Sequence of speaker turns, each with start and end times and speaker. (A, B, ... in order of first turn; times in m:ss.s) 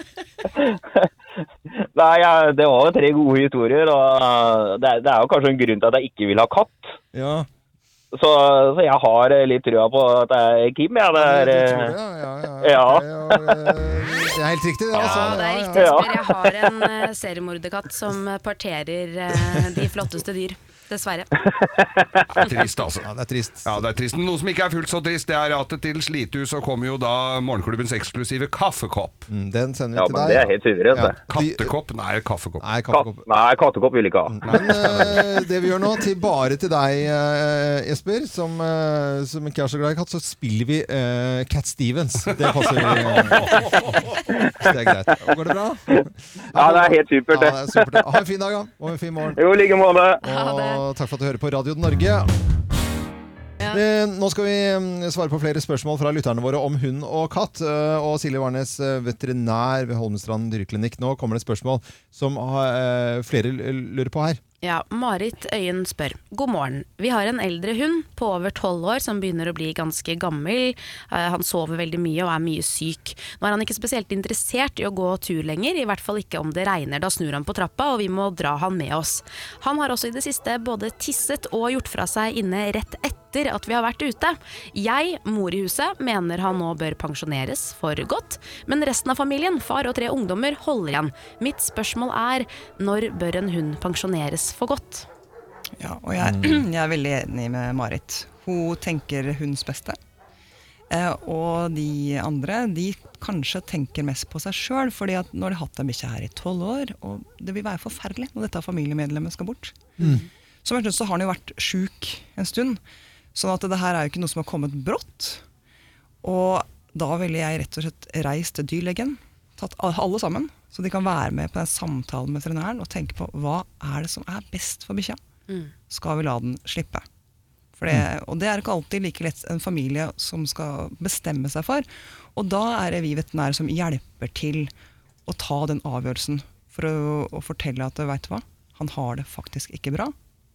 0:01.9-0:06.9 A
0:07.1-0:07.5 B
0:08.1-0:11.9 A
0:11.2-0:16.0 B
0:12.6-0:13.6 A
0:14.9-0:15.4 C
0:15.0-0:21.3 D
0:15.7-0:16.9 A
0:21.6-0:22.2 A
0:22.3-0:23.1 C
0:23.0-0:23.8 B
0:23.6-0:29.3 C
0:29.3-0:31.7 B
0:29.9-0:31.2 A
0:31.3-0:32.6 C
0:32.6-0:33.2 B
0:32.9-0:34.4 A
0:34.3-0:44.0 B
0:34.4-0:35.2 C
0:42.3-0:43.3 C
0:44.5-0:49.4 B
0:46.5-0:48.0 A
0:49.4-0:50.2 A
0:50.2-0:50.8 D
0:50.2-0:52.3 B
0:53.7-1:04.4 B
1:04.6-1:35.0 D
1:35.8-1:40.0 E
1:36.2-1:36.6 B
1:40.9-1:49.9 E
1:50.6-1:52.8 E
1:53.3-1:55.4 E
1:56.2-2:05.2 E
2:05.9-2:07.0 E
2:07.8-2:14.7 E
2:15.2-2:20.1 E